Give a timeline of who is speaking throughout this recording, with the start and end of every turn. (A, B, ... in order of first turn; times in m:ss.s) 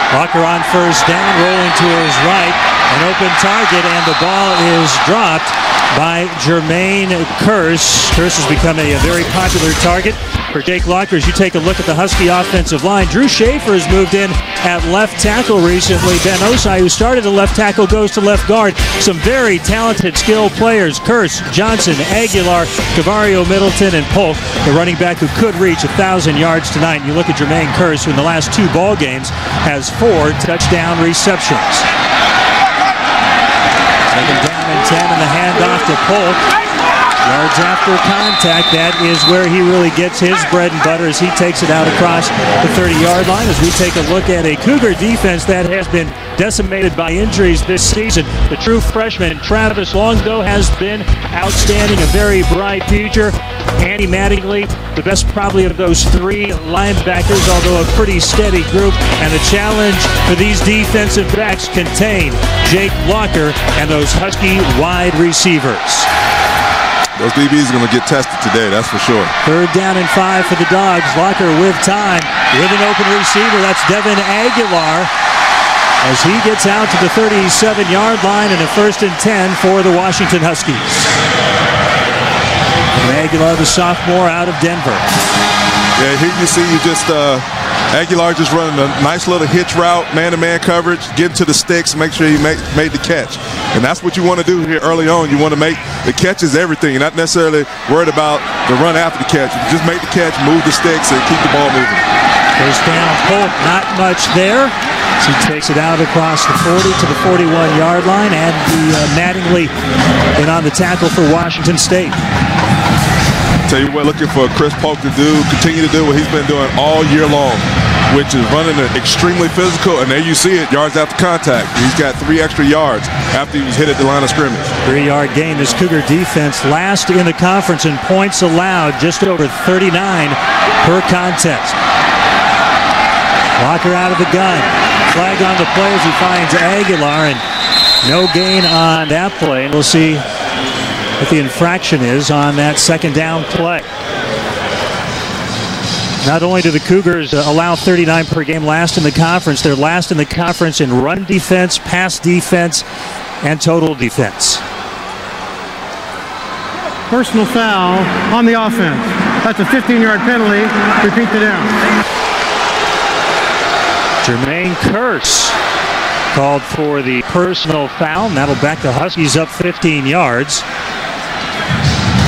0:00.1-0:31.8 A
0:34.1-0:36.4 A
0:37.2-1:06.1 A
1:07.2-1:09.3 B
1:09.4-1:15.1 A
1:16.0-1:21.1 A
1:23.0-1:25.0 A
1:26.0-1:42.0 B
1:42.6-1:49.7 A
1:50.4-1:52.2 A
1:53.7-2:04.7 B
2:04.8-2:11.8 A
2:13.6-2:17.4 A
2:18.0-2:20.2 A
2:21.2-2:23.9 A
2:26.2-2:32.8 A
2:33.4-2:34.6 A
2:37.1-2:41.8 C
2:44.2-2:45.6 A
2:46.3-2:50.6 A